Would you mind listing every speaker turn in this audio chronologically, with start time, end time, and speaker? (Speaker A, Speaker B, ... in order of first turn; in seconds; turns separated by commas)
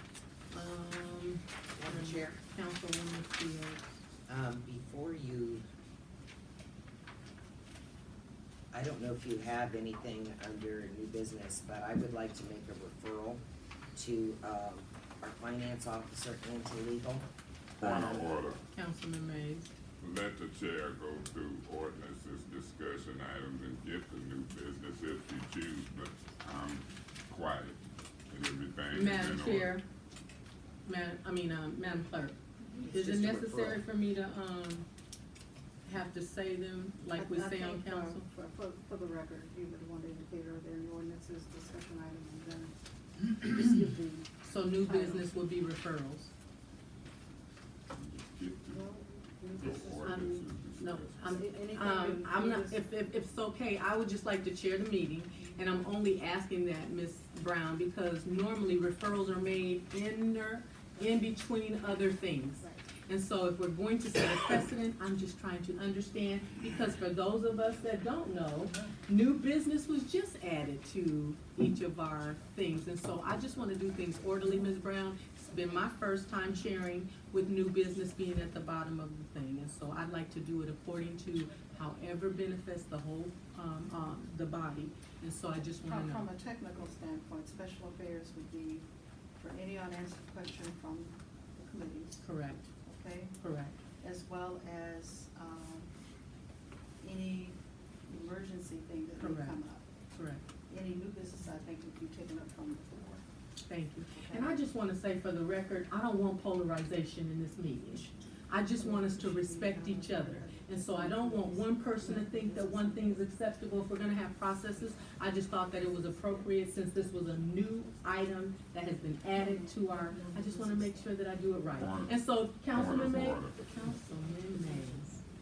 Speaker A: 0.5-4.0, Speaker B: 1.8-2.4, Speaker B: 4.3-5.6, Speaker B: 8.7-13.4, Speaker B: 13.9-17.3, Speaker C: 17.8-18.6, Speaker B: 17.8-18.5, Speaker A: 18.7-19.7, Speaker C: 20.0-29.8, Speaker A: 28.9-29.8, Speaker A: 30.8-34.9, Speaker B: 32.8-33.8, Speaker A: 35.8-38.2, Speaker D: 37.1-44.3, Speaker A: 44.4-46.3, Speaker D: 44.8-45.3, Speaker C: 47.9-48.8, Speaker D: 48.7-50.3, Speaker C: 49.5-51.4, Speaker A: 49.9-86.3, Speaker D: 51.2-52.8, Speaker D: 62.6-62.9, Speaker D: 85.8-88.8, Speaker D: 89.4-92.2, Speaker A: 92.2-92.7, Speaker D: 92.8-93.3, Speaker A: 93.4-93.8, Speaker D: 94.0-95.9, Speaker D: 97.0-99.9, Speaker A: 99.2-99.6, Speaker A: 100.1-100.5, Speaker D: 100.7-103.2, Speaker A: 103.7-125.2, Speaker D: 104.1-104.6, Speaker D: 108.8-113.3, Speaker D: 114.7-115.0, Speaker D: 115.7-116.4, Speaker D: 119.3-121.2, Speaker C: 121.8-122.1, Speaker C: 122.7-123.6, Speaker D: 124.5-125.0